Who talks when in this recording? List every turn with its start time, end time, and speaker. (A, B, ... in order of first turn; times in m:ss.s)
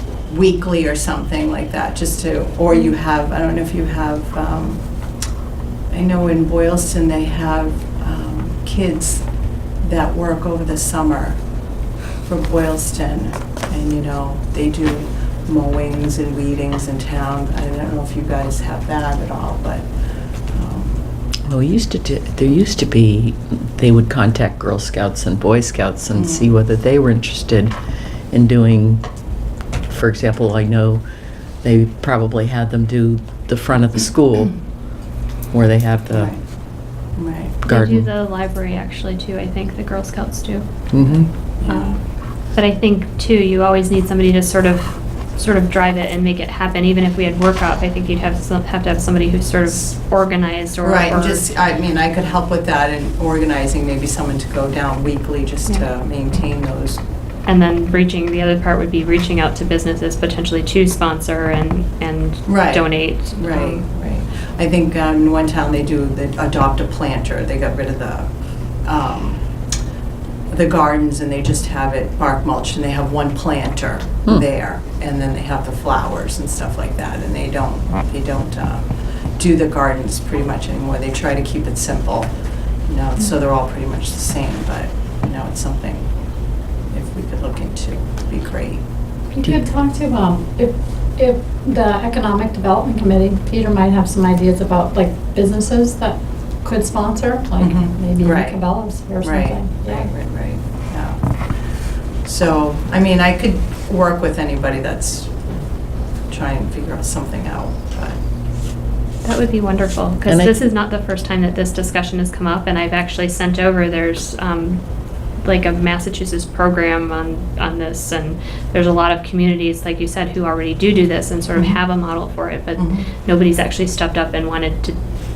0:00.3-0:04.8 A
0:05.9-0:09.2 A
0:09.8-0:11.4 A
0:12.2-0:19.9 A
0:20.5-0:21.0 A
0:21.5-0:27.7 B
0:26.1-0:26.5 A
0:28.3-0:29.0 B
0:29.9-0:31.0 B
0:31.6-0:34.6 B
0:35.5-0:36.3 B
0:36.1-0:36.4 A
0:37.2-0:37.6 A
0:37.6-0:40.7 C
0:37.7-0:38.1 B
0:40.9-0:41.3 B
0:41.0-0:42.0 A
0:42.5-0:51.5 C
0:50.8-0:57.0 A
0:57.4-1:03.8 C
1:02.4-1:08.3 A
1:08.8-1:09.4 A
1:10.5-1:22.3 A
1:22.9-1:26.1 A
1:26.9-1:28.8 A
1:29.3-1:40.1 D
1:37.6-1:38.6 A
1:39.2-1:41.3 A
1:42.2-1:45.5 A
1:46.3-1:48.2 A
1:49.2-1:54.8 C
1:50.2-1:50.6 B
1:55.4-2:05.0 C
2:02.8-2:03.0 A